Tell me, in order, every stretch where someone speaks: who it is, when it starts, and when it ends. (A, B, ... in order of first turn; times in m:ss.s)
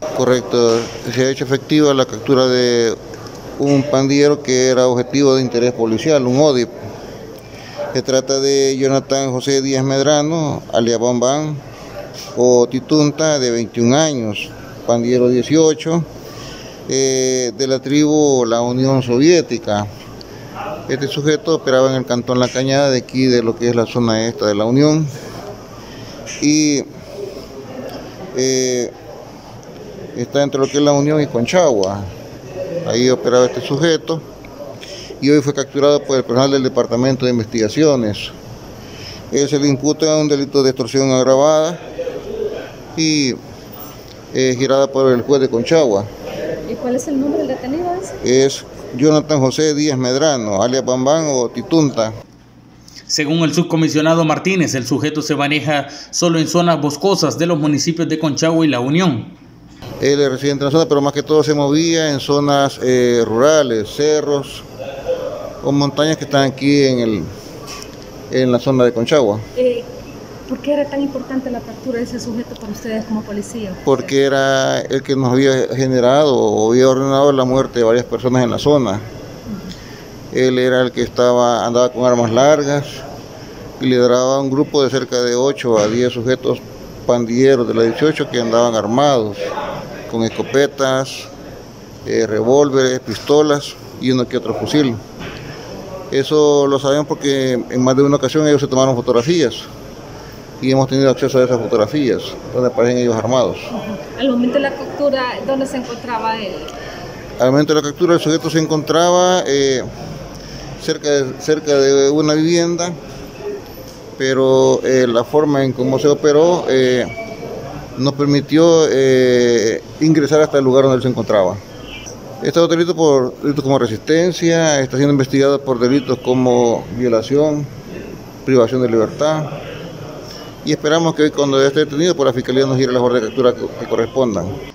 0:00.2-0:03.0 A
0:03.6-0:06.7 A
0:07.9-0:11.6 A
0:12.4-0:16.1 A
0:16.9-0:19.9 A
0:20.9-0:25.1 A
0:26.4-0:26.9 A
0:28.3-0:28.9 A
0:30.2-0:32.1 A
0:32.8-0:34.2 A
0:35.2-0:38.3 A
0:39.3-0:41.8 A
0:43.0-0:43.4 A
0:44.3-0:46.1 A
0:46.7-0:48.2 B
0:48.2-0:52.1 A
0:53.1-0:59.3 C
1:00.0-1:04.6 A
1:05.6-1:07.3 A
1:08.3-1:09.4 A
1:09.6-1:09.9 B
1:10.5-1:13.8 B
1:13.8-1:19.0 A
1:20.3-1:23.0 A
1:23.8-1:29.4 A
1:30.1-1:31.3 A
1:32.0-1:35.0 A
1:36.1-1:39.7 A
1:40.6-1:43.7 A
1:43.7-1:46.7 B
1:47.4-1:49.8 A
1:50.8-1:53.0 A
1:54.2-1:57.1 A
1:58.0-2:01.6 A
2:02.4-2:07.7 A
2:08.4-2:09.6 A
2:10.6-2:14.5 A